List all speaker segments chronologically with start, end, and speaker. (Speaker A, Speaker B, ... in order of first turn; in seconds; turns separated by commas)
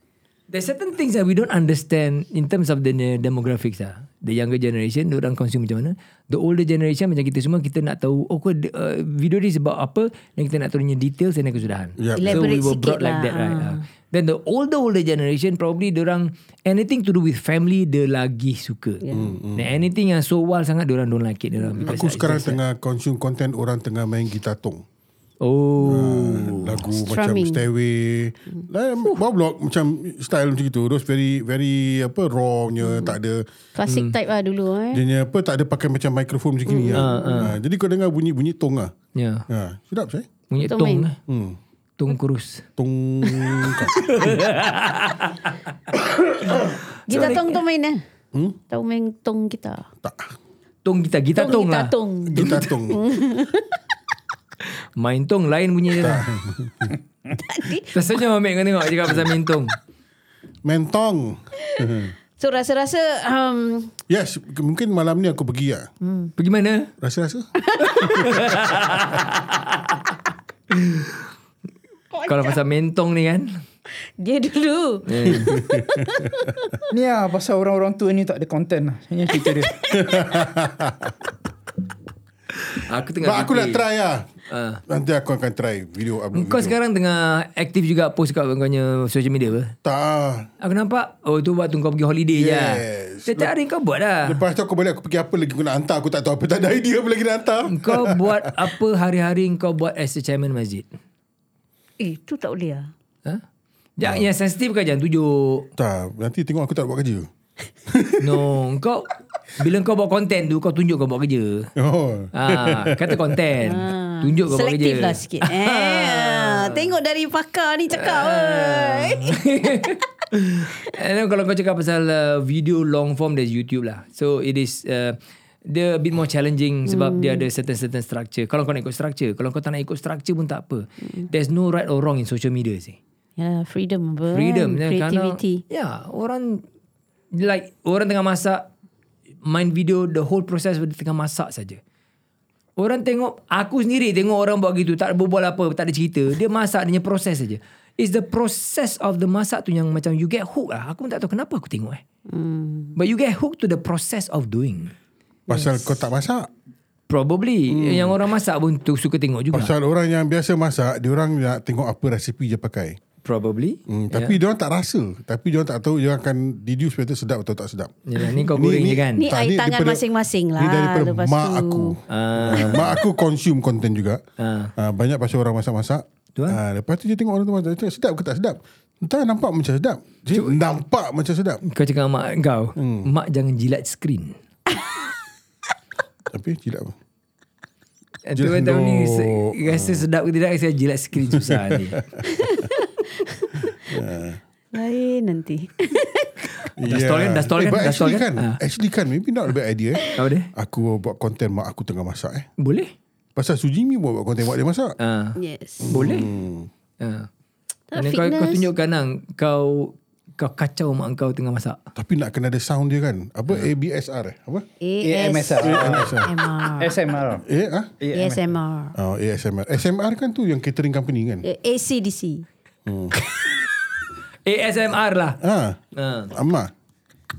Speaker A: 0.5-22.6, Speaker B: 12.0-12.4, Speaker C: 12.2-13.8, Speaker C: 19.1-19.4, Speaker B: 19.1-19.7, Speaker B: 21.8-24.8, Speaker A: 25.4-26.9, Speaker B: 25.8-33.4, Speaker C: 27.0-27.6, Speaker C: 32.8-33.2, Speaker C: 33.8-35.0, Speaker A: 33.9-34.1, Speaker B: 34.9-38.9, Speaker C: 36.7-37.5, Speaker A: 36.9-37.5, Speaker A: 39.1-39.5, Speaker B: 39.5-40.3, Speaker A: 40.5-41.2, Speaker C: 40.6-41.1, Speaker B: 41.3-41.6, Speaker A: 42.0-42.6, Speaker B: 42.8-44.4, Speaker A: 44.0-45.5, Speaker A: 46.5-47.6, Speaker C: 47.1-48.0, Speaker B: 47.1-47.4, Speaker C: 48.7-49.9, Speaker B: 50.0-50.3, Speaker A: 50.9-52.7, Speaker C: 51.4-53.8, Speaker B: 52.3-53.0, Speaker A: 55.0-56.3, Speaker B: 56.0-56.9, Speaker C: 57.3-58.1, Speaker A: 57.9-59.8, Speaker B: 60.6-62.1, Speaker C: 62.4-63.9, Speaker B: 64.1-65.9, Speaker C: 66.0-66.3, Speaker A: 66.4-66.9, Speaker B: 67.0-67.5, Speaker C: 67.7-68.3, Speaker A: 67.8-70.0, Speaker A: 70.7-71.1, Speaker C: 72.2-72.5, Speaker A: 72.2-73.5, Speaker C: 74.0-76.8, Speaker A: 75.1-75.5, Speaker B: 75.3-76.1, Speaker D: 76.9-79.8, Speaker C: 79.3-80.1, Speaker B: 79.9-81.1, Speaker A: 82.7-83.9, Speaker B: 83.2-84.3, Speaker A: 84.5-84.8, Speaker B: 84.9-86.8, Speaker A: 86.3-89.7, Speaker B: 89.8-90.5, Speaker A: 90.6-94.4, Speaker B: 92.3-93.5, Speaker B: 94.2-98.5, Speaker A: 97.7-100.9, Speaker C: 102.0-102.9, Speaker A: 104.0-105.7, Speaker B: 104.0-104.3, Speaker B: 105.8-107.3, Speaker B: 107.9-108.4, Speaker A: 108.2-111.7, Speaker B: 111.8-113.4, Speaker A: 112.3-116.9, Speaker C: 113.6-119.4, Speaker A: 117.9-133.0, Speaker C: 126.9-127.5, Speaker C: 133.4-135.6, Speaker A: 134.3-136.6, Speaker A: 137.3-138.7, Speaker A: 139.4-141.8, Speaker A: 142.8-152.0, Speaker C: 152.3-153.0, Speaker A: 153.0-154.9, Speaker C: 155.5-155.9, Speaker B: 155.5-156.5, Speaker A: 157.1-159.7, Speaker B: 157.7-158.2, Speaker B: 159.5-163.0, Speaker A: 163.2-164.4, Speaker B: 163.9-170.1, Speaker A: 168.1-169.3, Speaker C: 169.2-172.0, Speaker B: 170.6-174.2, Speaker A: 172.1-173.0, Speaker A: 174.4-174.7, Speaker B: 174.8-181.6, Speaker A: 180.3-180.6, Speaker A: 181.7-184.3, Speaker B: 182.8-183.1, Speaker B: 186.3-186.9, Speaker A: 188.3-192.0, Speaker B: 188.4-190.1, Speaker B: 191.2-192.4, Speaker C: 192.3-193.7, Speaker B: 193.9-194.4, Speaker C: 194.7-196.5, Speaker B: 196.8-202.5, Speaker A: 196.8-198.6, Speaker A: 200.2-200.5, Speaker A: 202.6-202.9, Speaker B: 203.4-204.9, Speaker A: 205.0-206.3, Speaker C: 205.4-205.9, Speaker B: 205.8-206.7, Speaker A: 207.0-207.3, Speaker C: 207.9-208.7, Speaker A: 207.9-211.8, Speaker B: 212.0-214.7, Speaker C: 214.8-217.0, Speaker D: 215.0-217.4, Speaker B: 215.6-216.3, Speaker B: 217.5-218.0, Speaker D: 218.0-218.4, Speaker C: 218.1-219.0, Speaker B: 219.0-221.4, Speaker C: 221.4-222.5, Speaker B: 222.9-223.1, Speaker A: 224.5-225.4, Speaker B: 225.4-225.8, Speaker A: 226.0-226.3, Speaker B: 226.3-226.7